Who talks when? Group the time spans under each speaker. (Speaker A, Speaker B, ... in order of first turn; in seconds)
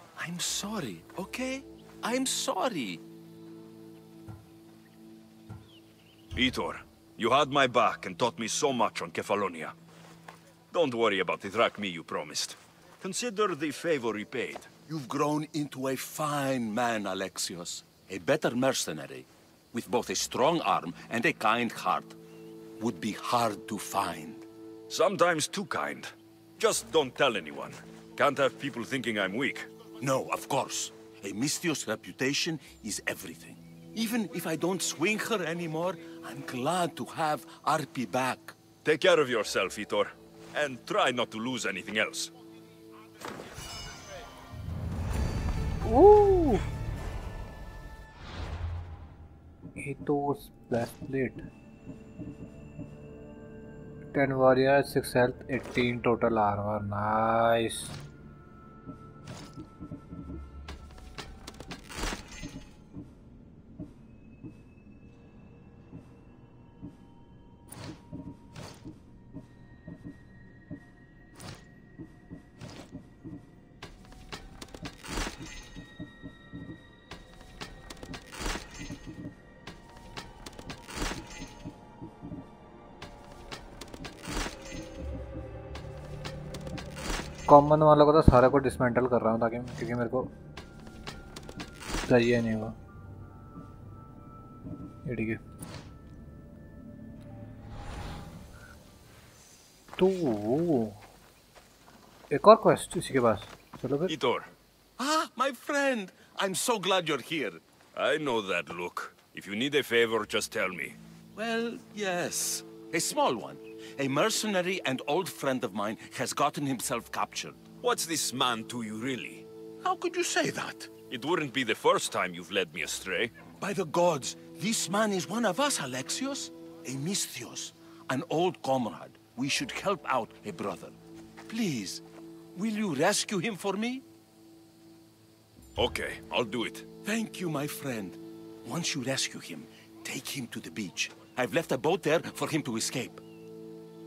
Speaker A: 0.2-3.0, 14.9-22.1, 22.8-24.4, 30.0-38.6, 105.0-107.6, 111.3-117.6, 119.8-120.9, 123.6-130.9, 131.5-132.0, 132.5-134.0, 137.0-143.2
Speaker B: 6.3-9.7, 10.7-14.7, 24.9-29.7, 38.8-42.3, 104.1-104.5, 107.9-111.0, 117.8-119.5, 121.1-123.3, 135.8-136.8
Speaker C: 45.8-46.6, 49.8-51.5, 54.1-57.9, 87.5-90.3, 92.0-92.7, 95.0-95.4, 100.0-101.0, 102.3-104.1